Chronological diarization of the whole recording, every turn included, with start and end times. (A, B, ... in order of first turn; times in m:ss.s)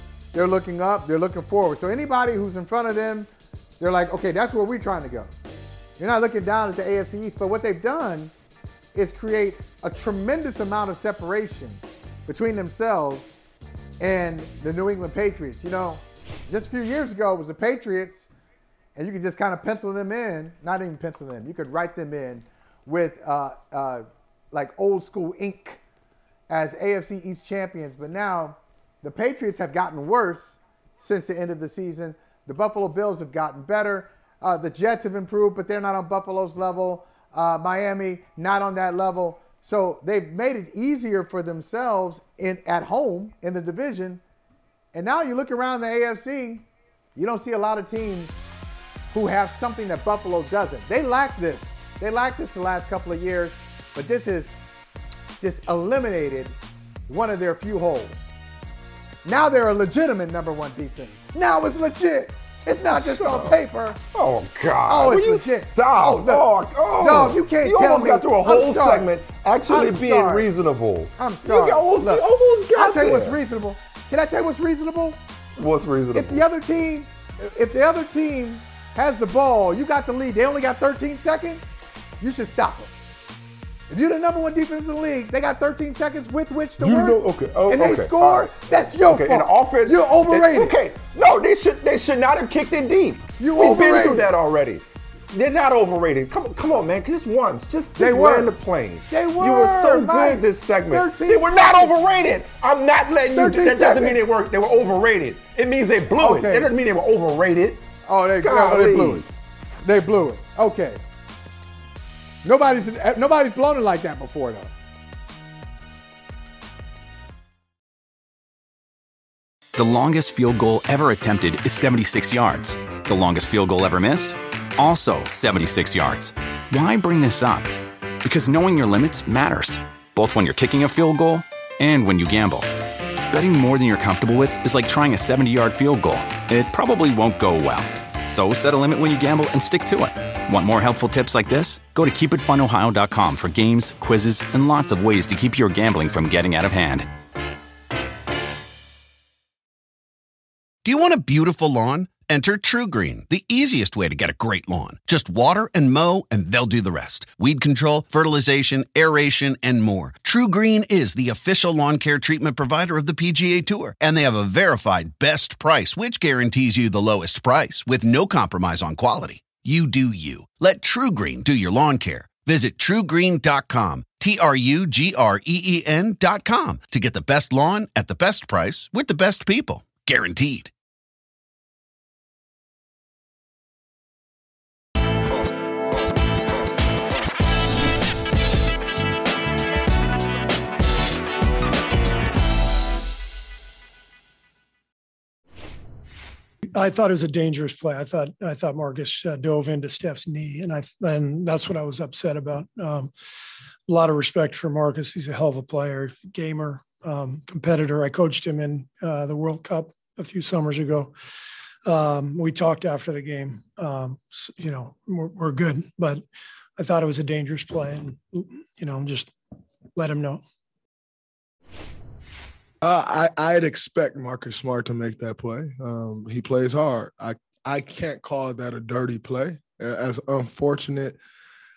0:00.3-0:05.3 A
0:06.0-0:08.3 A
0:08.9-0:13.3 A
0:14.0-0:18.3 A
0:19.0-0:25.8 A
0:26.5-0:44.2 A
0:44.9-0:48.3 A
0:49.1-0:54.5 A
0:55.4-0:56.6 A
0:57.1-0:58.3 A
0:59.2-1:04.0 A
1:02.9-1:03.6 B
1:04.1-1:13.4 B
1:04.9-1:06.5 A
1:07.0-1:09.1 A
1:09.7-1:10.5 A
1:11.2-1:15.2 A
1:15.6-1:16.4 B
1:16.2-1:22.9 A
1:23.9-1:30.8 A
1:26.8-1:47.8 B
1:33.4-1:34.3 A
1:38.0-1:38.5 A
1:39.1-1:42.0 A
1:43.3-1:44.2 A
1:46.2-1:46.7 A
1:48.0-1:49.3 A
1:48.4-1:49.2 B
1:49.8-1:51.0 A
1:52.4-1:54.7 A
1:59.8-2:07.7 C
2:08.2-2:12.7 C
2:13.3-2:27.1 C
2:30.8-3:00.7 D
3:16.8-3:23.1 E
3:23.9-3:31.1 E
3:31.9-3:36.2 E
3:36.8-3:39.3 E
3:40.0-3:40.4 E
3:42.8-3:51.2 F